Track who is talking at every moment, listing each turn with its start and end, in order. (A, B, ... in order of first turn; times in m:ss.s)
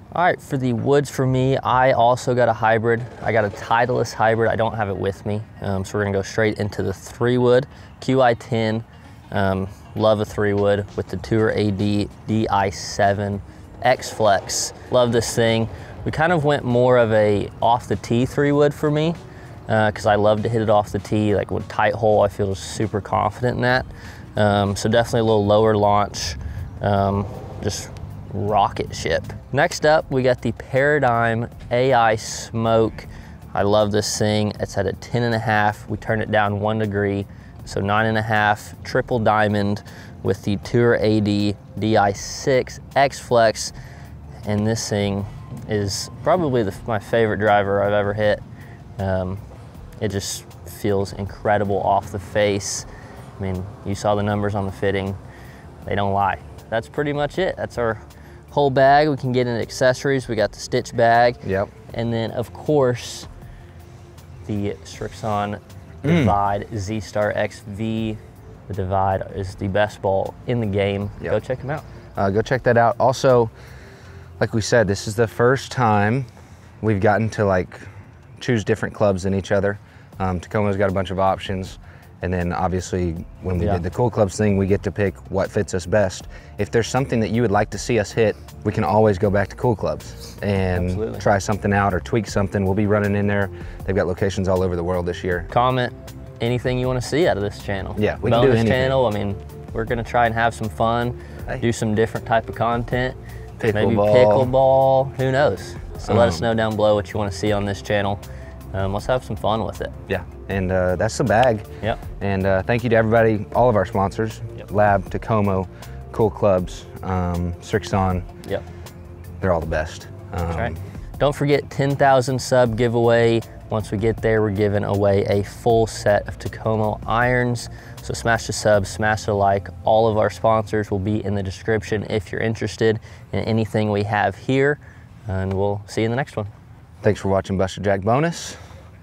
0:00.1-0:43.7 A
0:44.4-0:48.4 A
0:49.0-0:49.4 A
0:50.0-0:52.9 A
0:53.4-0:55.2 A
0:55.8-1:03.3 A
1:01.4-1:01.7 B
1:04.4-1:11.8 A
1:06.0-1:06.3 B
1:12.2-1:13.5 B
1:14.4-1:16.3 B
1:16.8-1:17.9 B
1:18.4-1:35.5 B
1:23.6-1:23.8 A
1:30.7-1:31.2 A
1:35.5-1:48.2 A
1:38.0-1:39.0 B
1:43.6-1:44.5 B
1:46.1-1:46.5 B
1:48.7-1:49.9 A
1:50.1-1:51.7 B
1:52.2-1:58.3 B
1:59.4-2:00.8 B
2:00.5-2:16.5 A
2:17.0-2:18.6 B